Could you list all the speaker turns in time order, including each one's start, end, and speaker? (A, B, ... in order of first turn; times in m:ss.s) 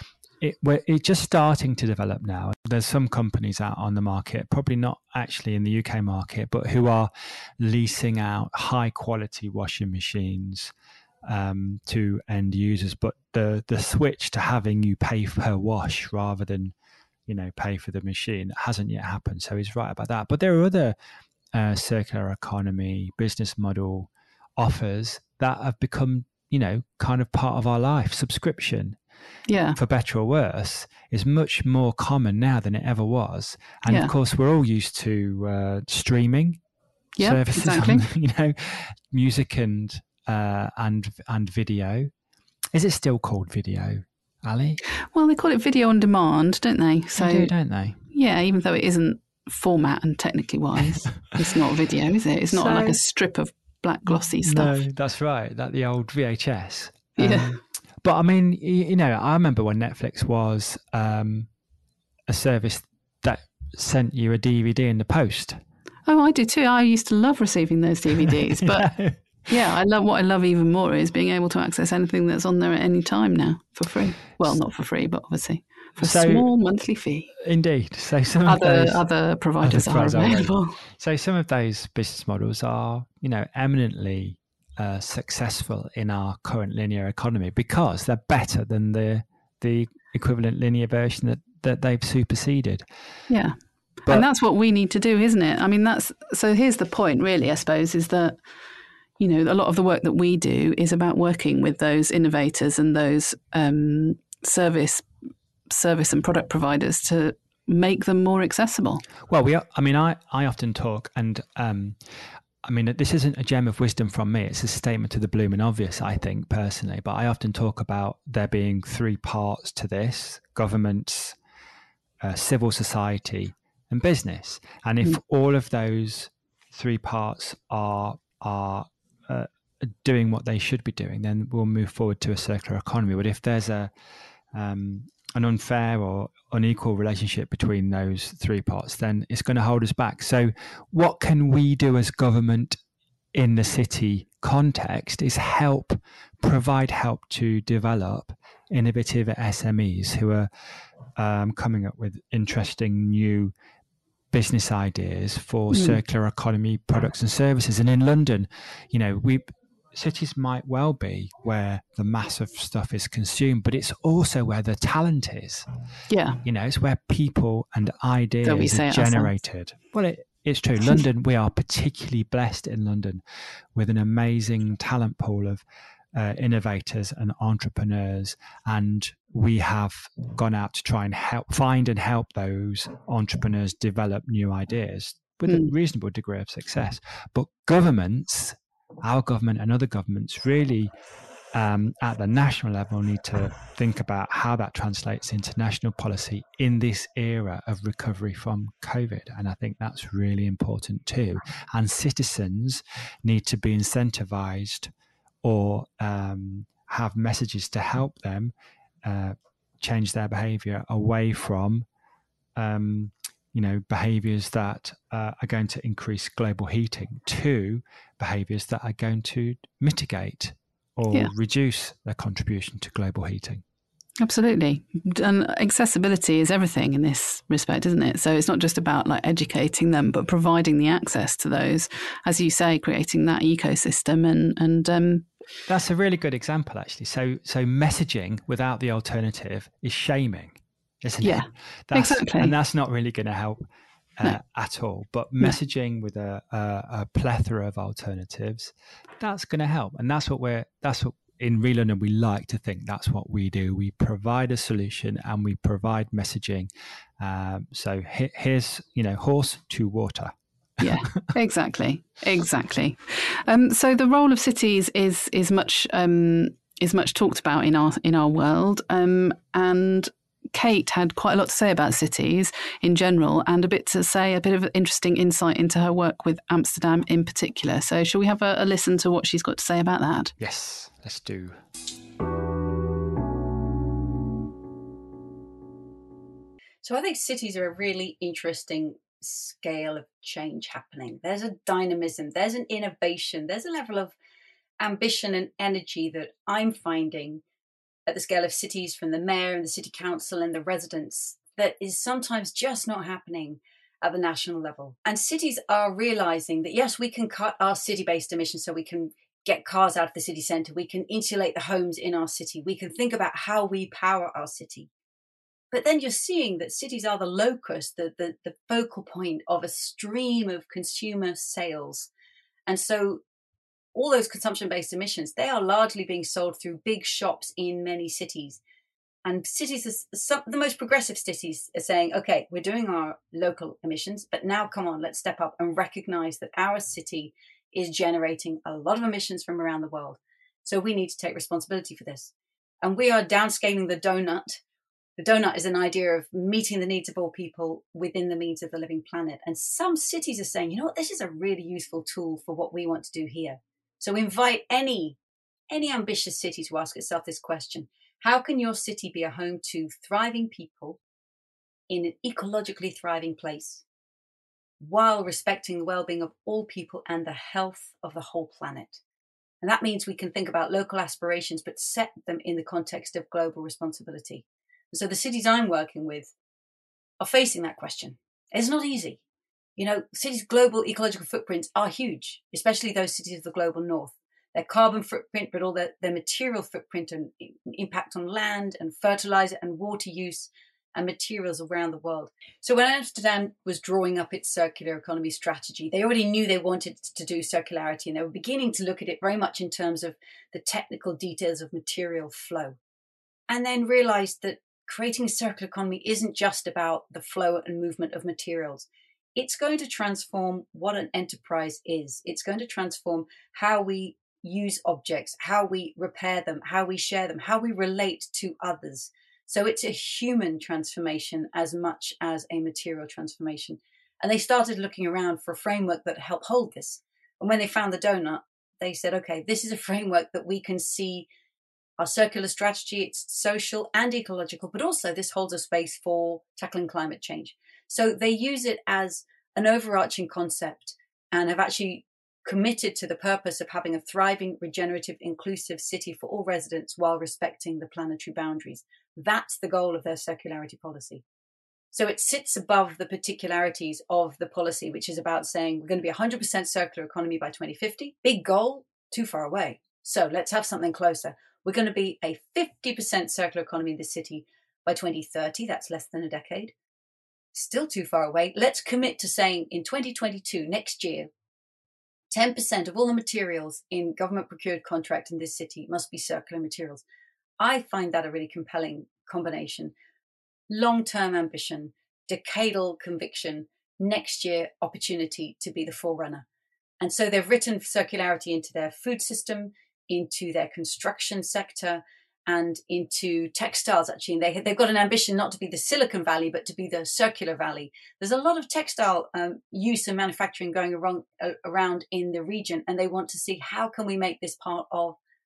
0:00.4-0:10.7 A
0:11.2-0:16.7 A
0:17.3-0:21.0 A
0:21.5-0:29.0 A
0:29.5-0:29.8 B
0:29.8-0:36.6 A
0:37.2-0:38.0 B
0:37.2-0:42.1 A
0:42.7-0:44.8 A
0:45.1-0:47.5 B
0:47.2-0:48.0 A
0:48.1-0:54.7 B
0:52.5-0:53.0 A
0:54.1-1:01.5 A
0:57.2-0:57.6 B
1:02.3-1:05.6 A
1:06.1-1:08.9 B
1:08.2-1:09.2 A
1:09.5-1:17.3 B
1:16.0-1:16.5 A
1:17.4-1:19.1 A
1:18.4-1:20.8 B
1:19.6-1:32.8 A
1:33.3-1:38.4 B
1:39.2-1:45.1 B
1:45.7-1:49.0 B
1:49.3-1:52.0 A
1:52.6-2:01.4 A
2:02.2-2:13.9 A
2:14.5-2:22.8 A
2:23.3-2:30.5 A
2:31.2-2:33.5 A
2:34.3-2:45.7 A
2:35.7-2:36.0 B
2:46.1-2:46.4 B
2:46.4-2:53.2 A
2:48.4-2:49.3 B
2:53.7-3:10.9 A
3:11.5-3:24.9 A
3:25.4-3:28.5 A
3:29.0-3:31.9 A
3:32.6-3:43.6 A
3:44.2-3:55.3 B
3:55.7-4:03.6 A
4:01.2-4:02.5 B
4:04.2-4:16.7 A
4:17.2-4:21.3 A
4:20.8-4:40.4 B
4:40.4-4:41.6 A
4:46.8-4:54.2 C
4:54.8-4:57.4 C
4:58.1-5:14.9 C
5:15.7-5:22.1 C
5:22.6-5:23.2 C
5:23.9-5:28.6 C
5:29.2-5:44.6 C
5:45.2-5:55.2 C
5:55.7-6:01.0 C
6:01.9-6:03.8 C
6:04.8-6:09.0 C
6:09.6-6:16.3 C
6:17.2-6:19.2 C
6:19.8-6:42.8 C
6:43.5-7:11.3 C
7:12.0-7:31.2 C
7:31.9-7:46.7 C
7:47.5-7:51.3 C
7:52.3-7:57.0 C
7:57.6-7:59.9 C
8:00.7-8:06.4 C
8:07.0-8:25.2 C